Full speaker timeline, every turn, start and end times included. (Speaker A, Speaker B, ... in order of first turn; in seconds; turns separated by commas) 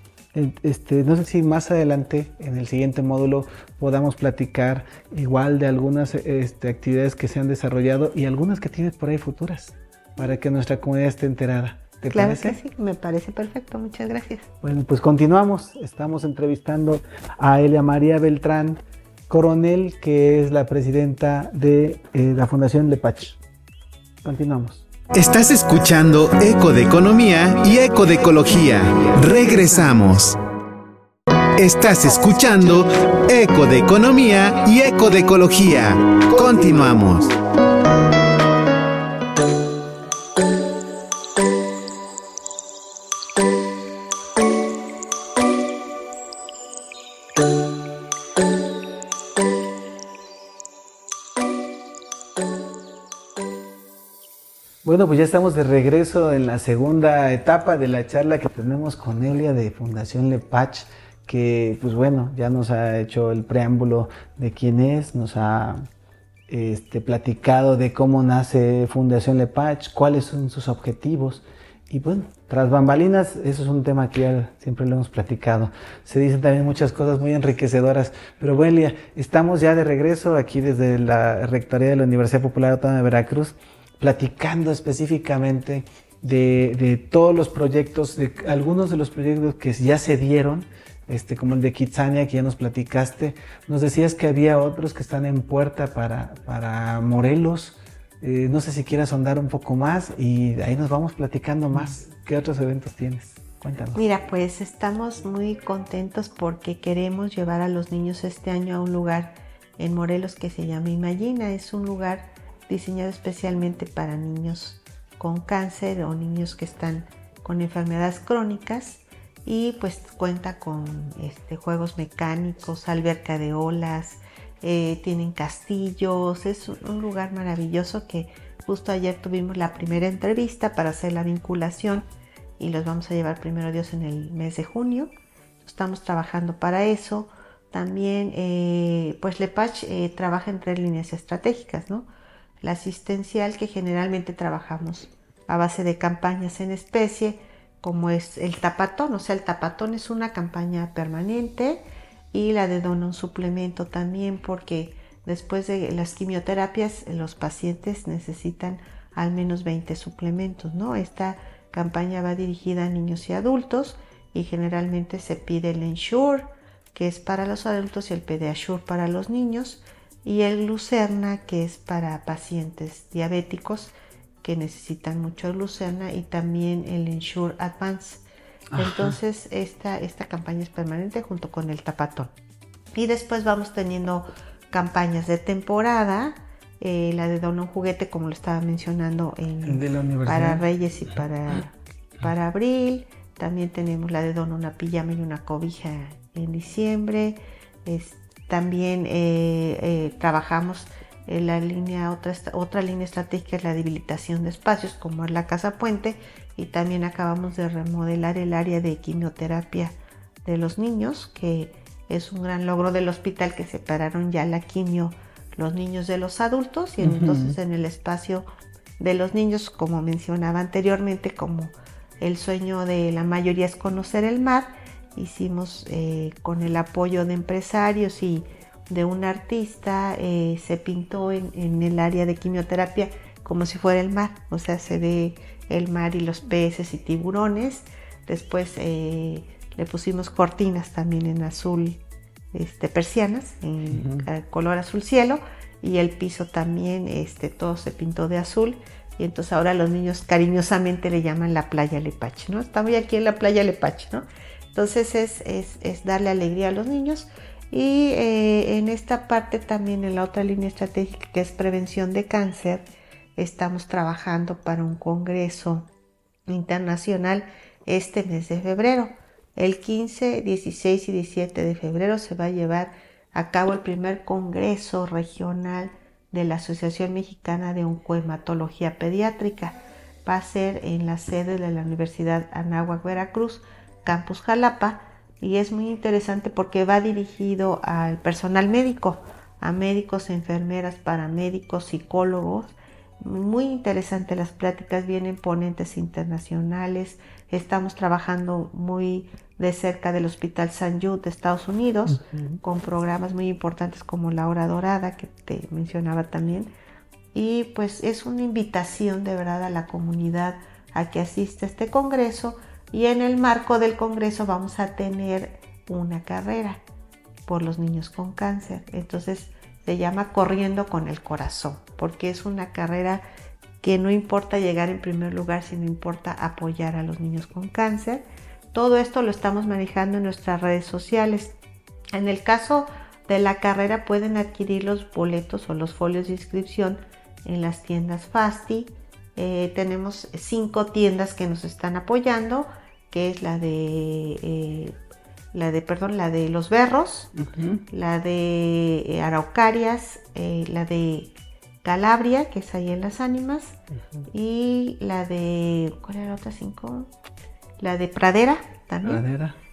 Speaker A: 0.3-12.6, Speaker B: 12.1-14.5, Speaker A: 14.6-23.4, Speaker A: 24.2-24.9, Speaker C: 25.1-30.4, Speaker C: 31.6-37.3, Speaker A: 54.9-65.9, Speaker A: 66.5-104.0, Speaker B: 104.0-132.1, Speaker B: 132.6-142.1, Speaker B: 142.6-178.2, Speaker A: 178.7-179.2, Speaker B: 178.8-182.3, Speaker B: 182.9-218.5, Speaker A: 189.6-190.6, Speaker A: 217.0-217.6, Speaker B: 219.0-242.0, Speaker B: 242.5-265.9, Speaker A: 243.9-244.3, Speaker B: 266.5-306.7, Speaker A: 302.1-302.6, Speaker B: 307.3-316.8, Speaker B: 317.5-323.2, Speaker B: 323.8-331.6, Speaker B: 332.1-345.0, Speaker B: 345.5-347.3, Speaker A: 347.4-347.9, Speaker B: 347.9-353.8, Speaker B: 354.3-357.1, Speaker B: 357.8-359.2, Speaker A: 359.0-359.6